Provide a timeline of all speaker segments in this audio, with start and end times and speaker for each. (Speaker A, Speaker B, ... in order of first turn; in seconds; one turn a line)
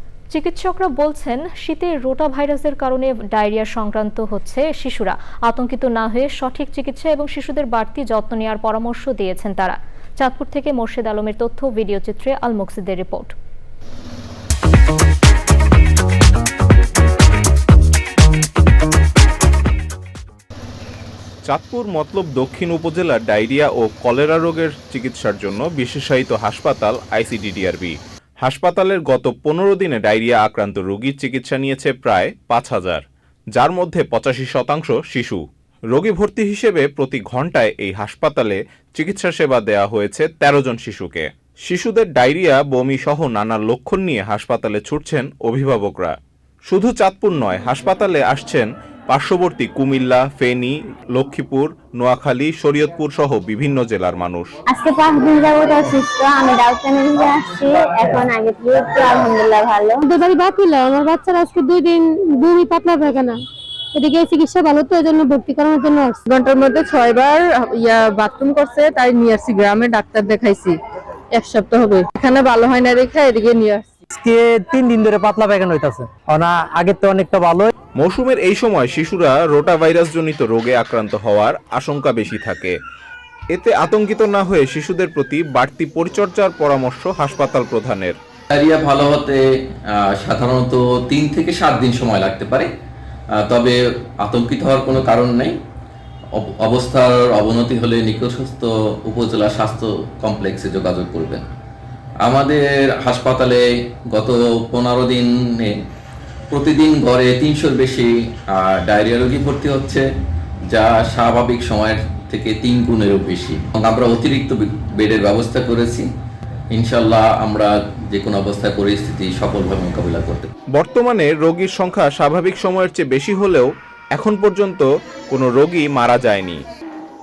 Speaker A: 0.3-13.3
Speaker B: 21.5-33.0
Speaker B: 33.5-46.1
Speaker B: 46.7-54.5
Speaker C: 54.7-60.0
Speaker D: 60.0-63.4
Speaker D: 63.9-66.2
Speaker E: 66.3-70.8
Speaker E: 71.3-73.9
Speaker F: 74.2-77.7
Speaker B: 78.0-82.8
Speaker B: 83.5-88.2
Speaker G: 88.5-89.4
Speaker G: 90.0-92.7
Speaker G: 93.4-95.5
Speaker G: 96.6-101.4
Speaker G: 102.2-105.8
Speaker G: 106.5-110.1
Speaker G: 110.7-116.1
Speaker G: 116.7-120.5
Speaker B: 120.7-126.6